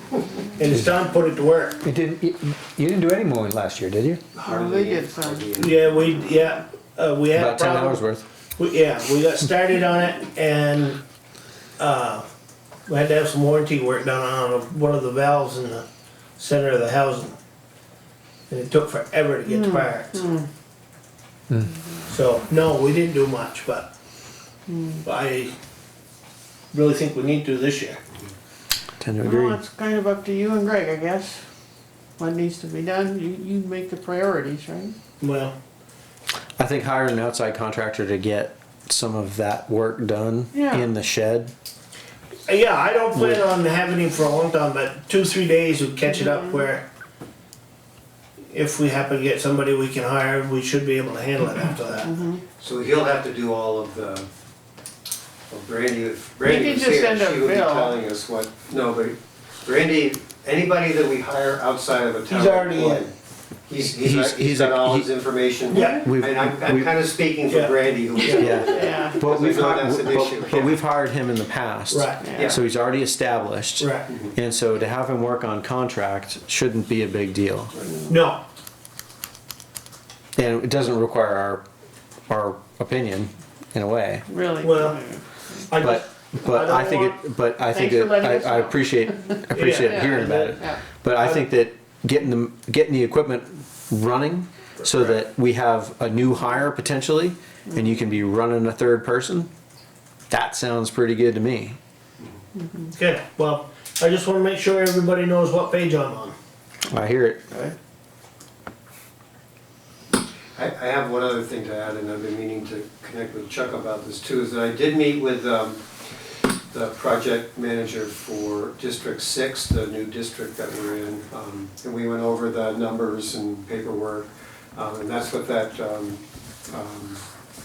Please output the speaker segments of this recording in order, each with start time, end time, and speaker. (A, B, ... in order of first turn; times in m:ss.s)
0:00.6-0:01.8 A
0:01.8-0:04.2 B
0:04.3-0:06.1 C
0:04.4-0:06.6 D
0:05.6-0:08.0 A
0:07.4-0:08.3 E
0:08.6-0:11.0 A
0:11.8-0:12.3 A
0:12.9-0:15.8 A
0:16.4-0:17.4 A
0:18.5-0:20.2 A
0:19.5-0:20.5 D
0:22.1-0:23.9 A
0:24.7-0:25.0 D
0:25.0-0:25.5 A
0:26.7-0:28.0 A
0:29.0-0:29.6 E
0:29.2-0:31.4 D
0:32.2-0:35.0 D
0:35.2-0:35.6 A
0:36.6-0:41.5 E
0:40.5-0:40.9 D
0:42.5-0:46.8 A
0:43.2-0:43.4 E
0:48.5-0:52.1 A
0:52.0-0:52.4 D
0:52.6-0:54.3 C
0:55.5-1:03.1 C
0:56.4-0:58.0 D
1:02.3-1:03.1 A
1:03.7-1:10.8 C
1:03.9-1:05.1 E
1:05.7-1:06.0 D
1:05.7-1:06.1 A
1:05.8-1:06.9 E
1:07.5-1:08.6 A
1:08.3-1:17.7 E
1:08.6-1:09.2 D
1:11.9-1:12.3 A
1:12.2-1:12.6 D
1:12.3-1:12.6 C
1:13.8-1:14.1 A
1:17.8-1:18.1 C
1:18.1-1:18.4 A
1:20.4-1:21.6 E
1:22.3-1:24.3 E
1:24.3-1:25.7 D
1:24.6-1:25.0 A
1:25.7-1:27.0 A
1:25.8-1:39.5 E
1:26.6-1:27.1 D
1:27.6-1:30.8 D
1:29.5-1:30.6 A
1:31.2-1:31.4 A
1:34.8-1:35.2 A
1:40.3-1:41.8 E
1:42.6-1:42.9 D
1:42.9-1:46.4 A
1:46.9-1:47.4 E
1:47.5-1:47.8 D
1:50.6-2:07.2 C